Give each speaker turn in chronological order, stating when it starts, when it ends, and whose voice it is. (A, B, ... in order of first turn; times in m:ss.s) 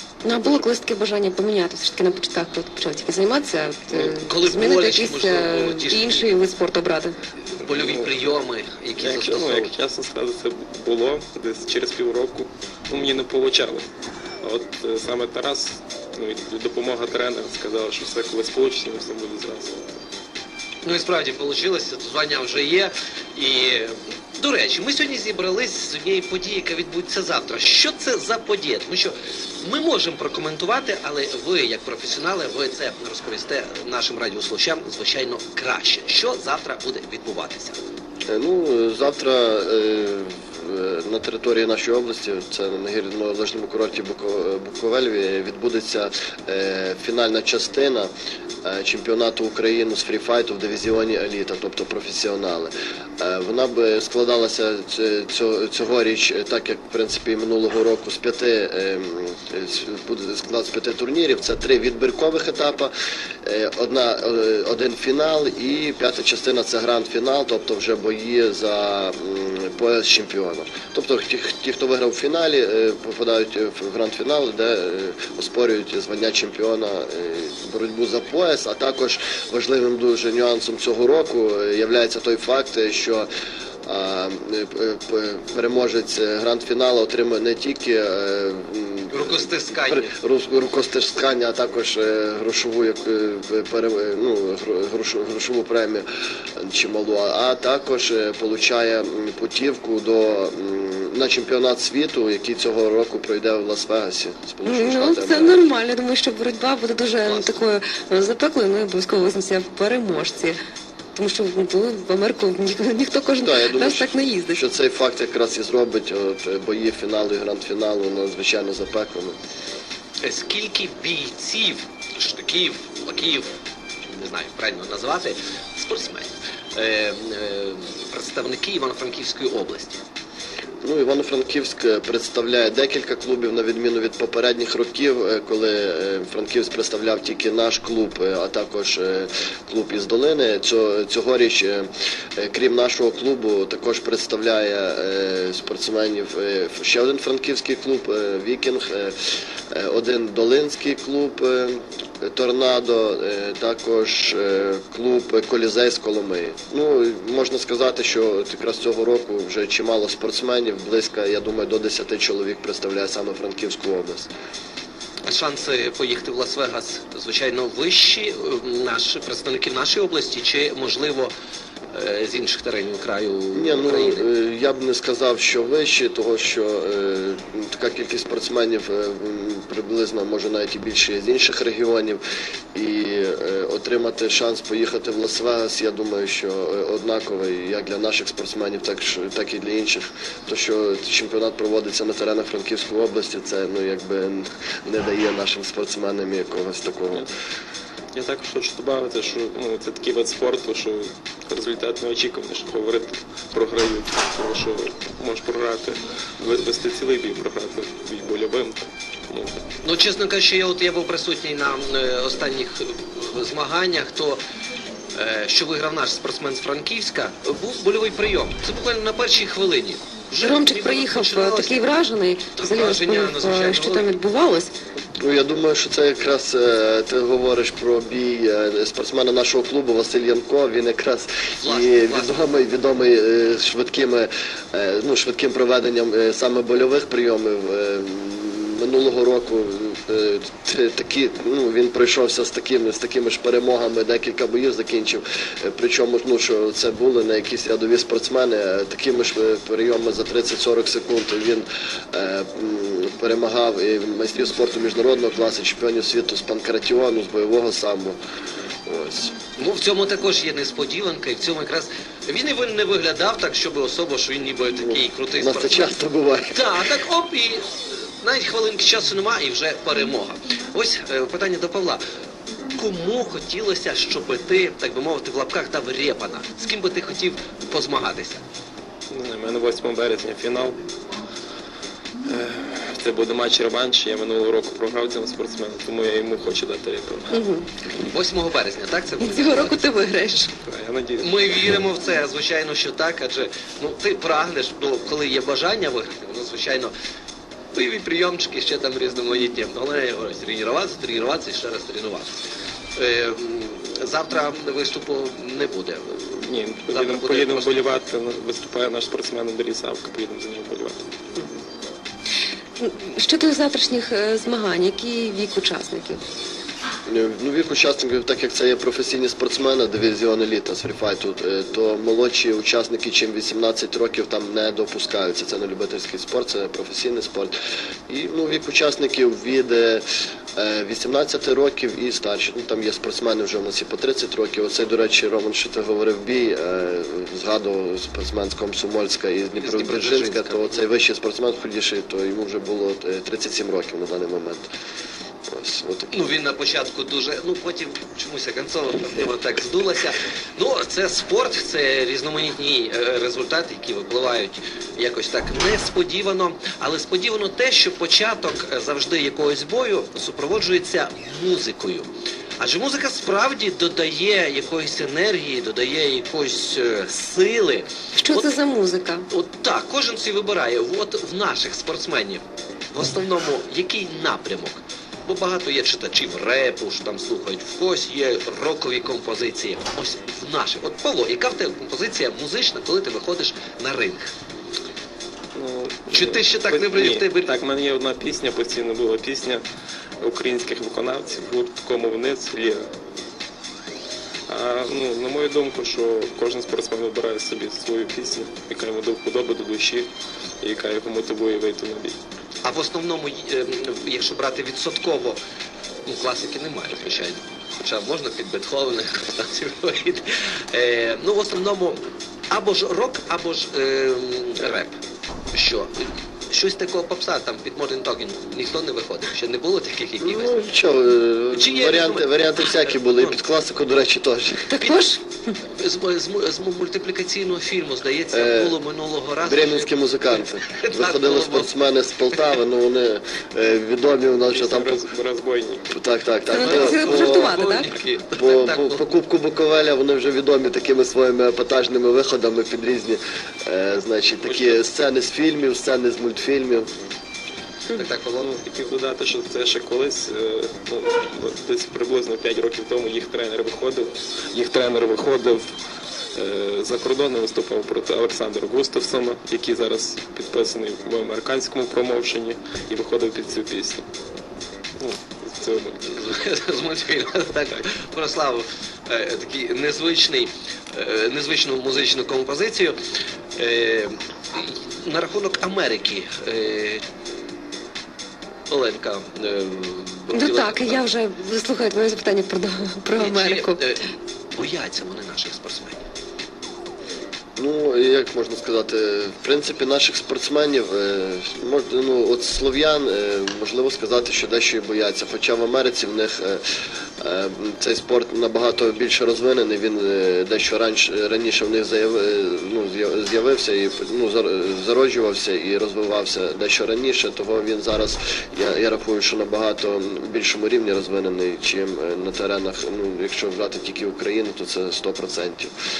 0:00.2-0:07.2 A
0:03.9-0:06.3 B
0:07.6-0:09.7 B
0:07.6-0:08.1 C
0:09.0-0:13.9 C
0:14.4-0:19.8 C
0:20.8-0:37.8 B
0:38.3-0:48.1 D
0:48.6-1:02.9 D
1:03.4-1:23.3 D
1:23.9-1:36.1 D
1:29.1-1:30.1 B
1:36.6-1:45.6 D
1:44.7-1:50.6 A
1:47.2-1:47.6 B
1:51.2-1:54.6 A
1:53.4-1:59.4 D
2:00.2-2:03.5 B
2:04.1-2:10.0 B
2:10.8-2:44.3 D
2:45.3-2:51.3 B
2:51.9-2:54.3 B
2:53.5-3:02.2 D
3:02.7-3:17.3 D
3:18.2-3:29.5 C
3:29.8-3:34.4 B
3:35.1-3:41.9 B
3:40.4-3:44.7 A
3:42.6-3:44.1 B
3:45.2-4:18.2 D
3:51.6-3:52.4 B
4:18.9-4:19.4 D
4:19.6-4:25.9 B
4:24.8-4:26.8 D
4:26.5-4:32.0 B
4:32.7-4:38.4 B
4:39.1-4:40.8 C
4:42.3-4:47.4 C
4:47.3-4:47.7 A
4:48.1-4:49.8 B
4:49.2-4:50.5 A
4:50.6-4:51.4 C
4:51.2-4:56.9 B
4:57.7-5:02.4 B
5:03.0-5:06.1 B
5:06.1-5:11.0 C
5:06.9-5:07.9 B
5:12.8-5:16.2 A
5:17.1-5:27.5 D
5:28.1-5:44.7 D
5:39.6-5:40.8 B
5:45.5-5:46.1 D
5:46.1-6:02.1 B
6:02.6-6:08.5 B
6:08.2-6:09.2 A
6:09.3-6:24.3 B
6:25.6-6:29.6 C
6:26.1-6:27.6 B
6:30.2-6:32.9 C
6:34.5-6:40.1 C
6:40.6-6:42.2 C
6:42.6-6:45.4 B
6:46.1-6:55.0 B
6:55.5-7:00.6 B
7:00.2-7:04.8 D
7:01.5-7:03.4 B
7:04.7-7:05.2 A
7:05.7-7:09.9 B
7:08.3-7:08.8 D
7:09.4-7:15.1 D
7:10.7-7:11.7 B
7:14.5-7:15.9 C
7:15.9-7:17.6 D
7:16.5-7:17.9 A
7:16.6-7:19.0 B
7:18.4-7:26.9 D
7:24.4-7:24.8 C
7:28.0-7:28.5 B
7:28.4-7:35.7 C
7:36.4-7:44.1 C
7:45.0-7:46.2 C
7:46.0-7:53.0 B
7:53.6-7:57.0 B
7:58.7-8:01.0 B
8:00.3-8:03.8 A
8:03.2-8:04.0 B
8:04.6-8:06.0 B
8:07.6-8:16.6 D
8:17.2-8:35.7 D